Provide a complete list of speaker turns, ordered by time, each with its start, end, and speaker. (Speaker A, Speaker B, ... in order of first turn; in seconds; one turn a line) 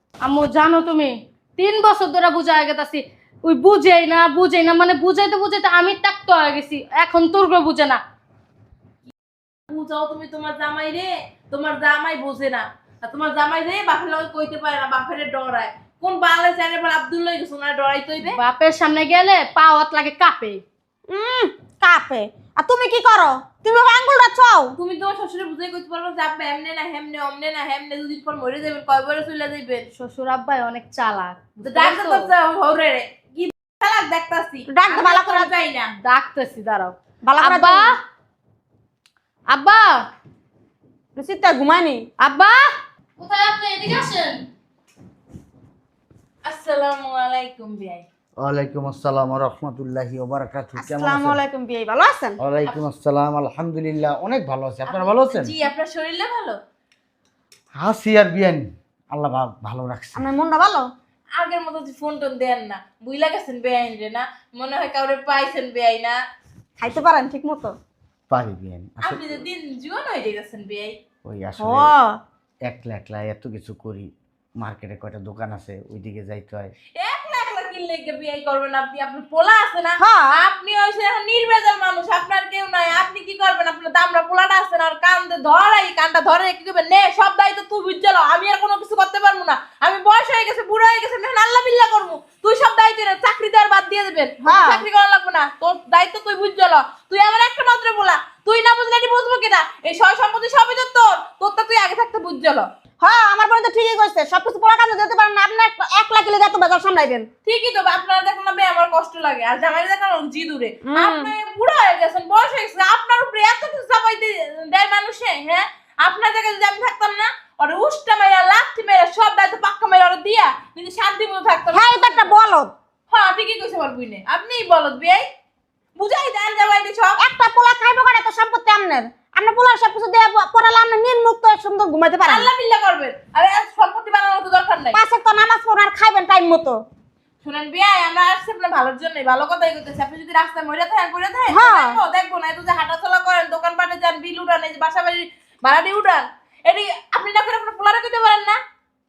Speaker A: 0.2-8.0
Speaker B: 9.7-18.4
Speaker A: 18.3-20.6
Speaker C: 21.1-24.7
Speaker B: 24.8-29.9
Speaker A: 29.9-32.3
Speaker B: 31.6-36.0
Speaker C: 34.7-35.5
Speaker A: 36.0-38.0
Speaker C: 37.2-37.9
Speaker A: 39.5-40.1
Speaker C: 41.2-42.1
Speaker A: 42.2-44.5
Speaker B: 46.5-48.1
Speaker D: 48.4-51.4
Speaker C: 50.8-52.4
Speaker D: 52.4-55.5
Speaker B: 54.9-56.6
Speaker D: 57.8-60.2
Speaker C: 60.2-60.9
Speaker B: 61.4-66.2
Speaker C: 66.8-67.8
Speaker D: 68.3-69.4
Speaker B: 69.0-71.0
Speaker D: 71.2-71.9
Speaker C: 71.6-72.2
Speaker D: 72.7-76.7
Speaker B: 77.0-102.7
Speaker C: 80.0-80.3
Speaker C: 94.4-94.8
Speaker C: 103.0-107.3
Speaker B: 107.5-122.3
Speaker C: 110.9-111.3
Speaker C: 121.7-122.7
Speaker B: 123.1-125.2
Speaker B: 126.0-127.2
Speaker C: 127.2-132.5
Speaker B: 132.2-135.0
Speaker C: 134.9-136.8
Speaker B: 137.4-148.6
Speaker C: 141.5-142.0